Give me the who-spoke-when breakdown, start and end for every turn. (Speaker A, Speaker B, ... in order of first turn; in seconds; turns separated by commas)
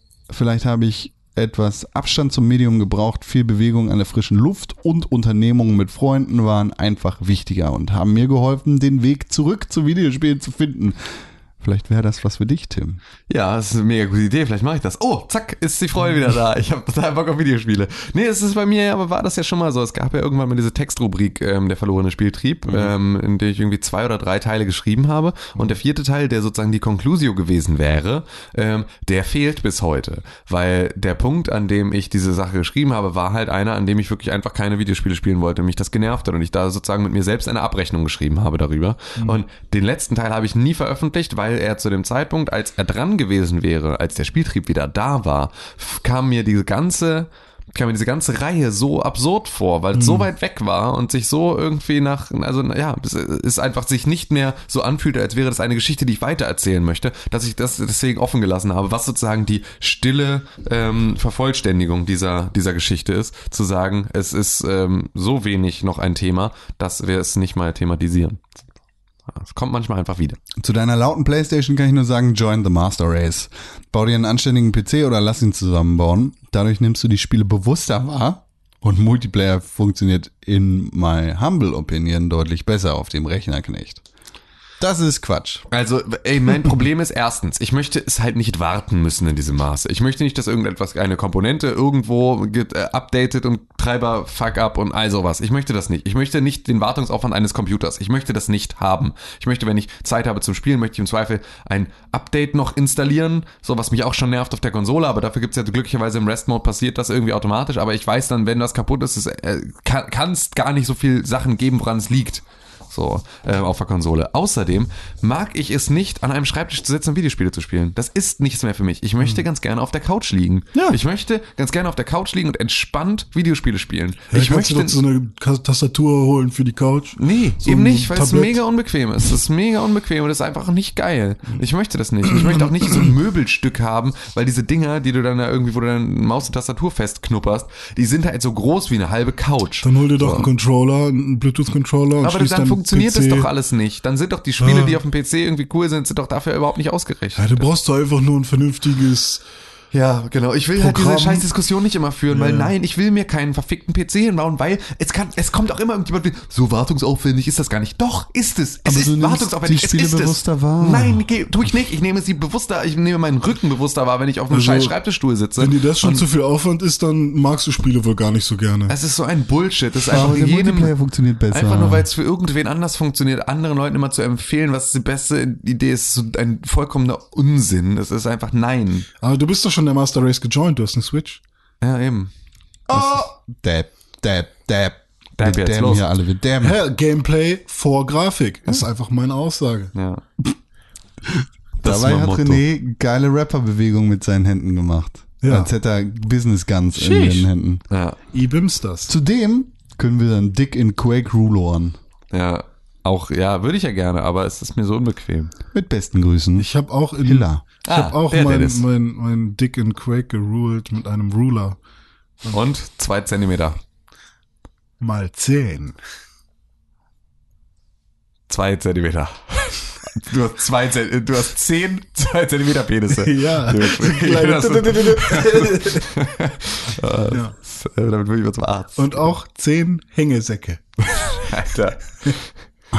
Speaker A: 0.3-13.0, Speaker B: 13.3-68.4, Speaker C: 49.9-50.3, Speaker B: 69.3-70.4, Speaker A: 70.6-84.0, Speaker A: 84.8-85.7, Speaker B: 85.7-125.0, Speaker C: 124.3-128.6, Speaker B: 127.2-140.5, Speaker C: 132.3-133.1, Speaker C: 139.8-143.5, Speaker B: 142.2-147.7, Speaker C: 144.6-145.0, Speaker C: 147.3-149.4, Speaker B: 149.9-166.2, Speaker A: 150.8-151.5, Speaker C: 152.3-152.7, Speaker A: 158.8-161.2, Speaker C: 164.5-165.0, Speaker C: 165.6-168.9, Speaker B: 168.9-170.9, Speaker A: 170.1-172.1, Speaker B: 171.5-179.1, Speaker C: 179.2-181.4, Speaker B: 181.8-182.3, Speaker A: 182.9-186.8, Speaker B: 182.9-183.2, Speaker B: 185.4-186.1, Speaker C: 186.6-189.9, Speaker B: 189.9-190.2, Speaker B: 191.8-192.6, Speaker A: 191.8-197.8, Speaker C: 195.4-195.7, Speaker C: 196.9-197.5, Speaker B: 197.9-198.2, Speaker C: 198.3-199.1, Speaker A: 199.1-202.0, Speaker B: 202.3-205.5, Speaker A: 205.7-206.7, Speaker C: 206.6-211.8, Speaker A: 207.2-207.6, Speaker B: 207.8-208.8, Speaker B: 212.5-213.8, Speaker C: 215.0-216.0, Speaker B: 218.5-229.3, Speaker C: 223.2-226.2, Speaker C: 229.0-231.4, Speaker B: 231.0-232.5